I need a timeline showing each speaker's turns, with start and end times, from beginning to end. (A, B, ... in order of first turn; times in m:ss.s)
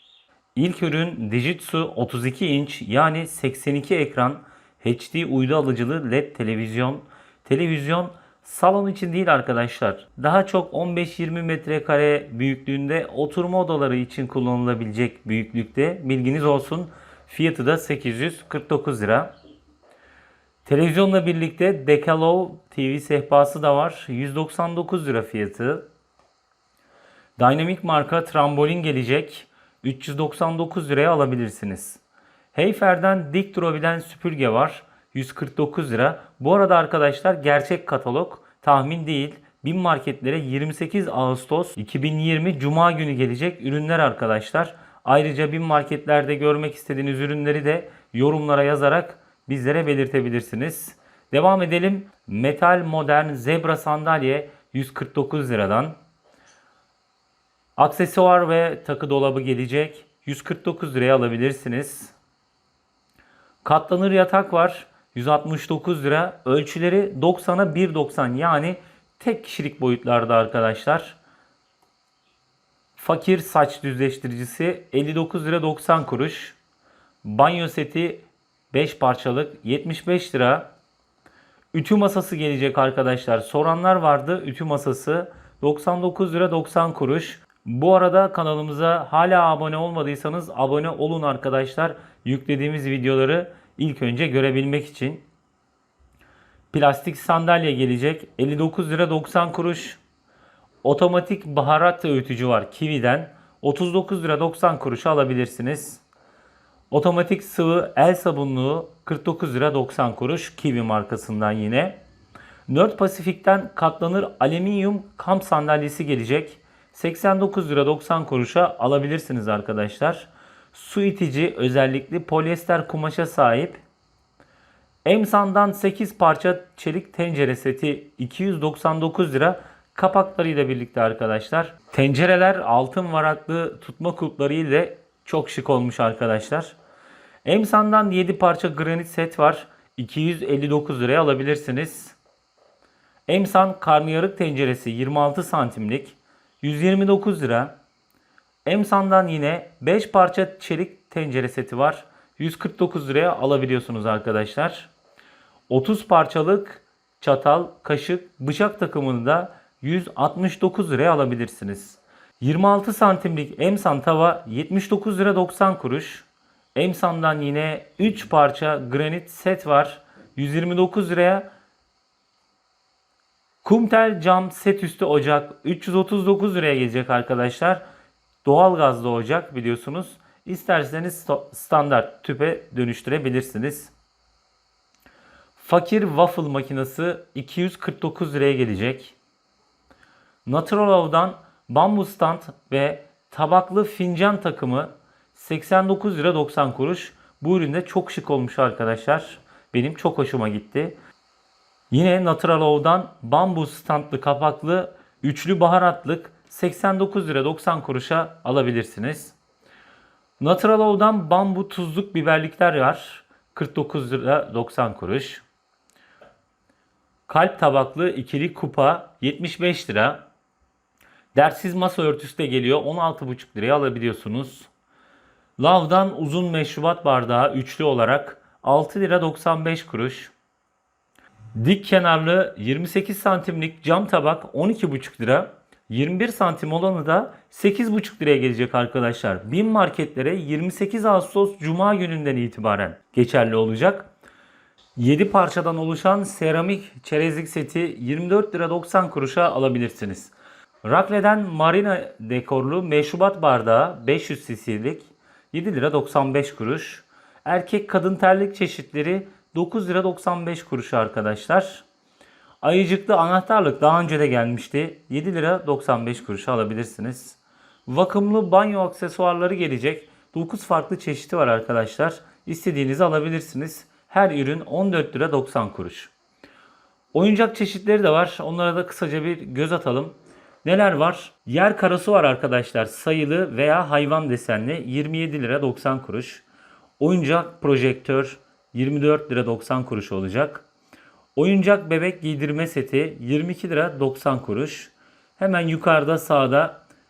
0:00.5-0:19.3 A
0:20.6-0:25.8 A
0:27.4-0:32.0 A
0:32.5-0:56.0 A
0:57.8-1:02.1 A
1:03.6-1:11.2 A
1:13.0-1:16.6 A
1:17.2-1:20.7 A
1:21.7-1:35.2 A
1:36.7-1:40.0 A
1:40.8-1:46.0 A
1:46.9-1:52.0 A
1:52.7-2:03.8 A
2:05.0-2:16.8 A
2:17.4-2:22.2 A
2:23.3-2:27.7 A
2:28.6-2:34.9 A
2:35.7-2:51.5 A
2:53.6-2:57.8 A
2:58.4-3:03.9 A
3:05.6-3:09.1 A
3:10.4-3:21.0 A
3:21.9-3:29.4 A
3:30.4-3:35.4 A
3:37.3-3:40.2 A
3:41.3-3:44.7 A
3:45.6-3:50.3 A
3:51.5-4:04.1 A
4:05.0-4:21.8 A
4:22.6-4:36.1 A
4:37.1-4:46.4 A
4:47.0-4:50.6 A
4:51.4-4:56.8 A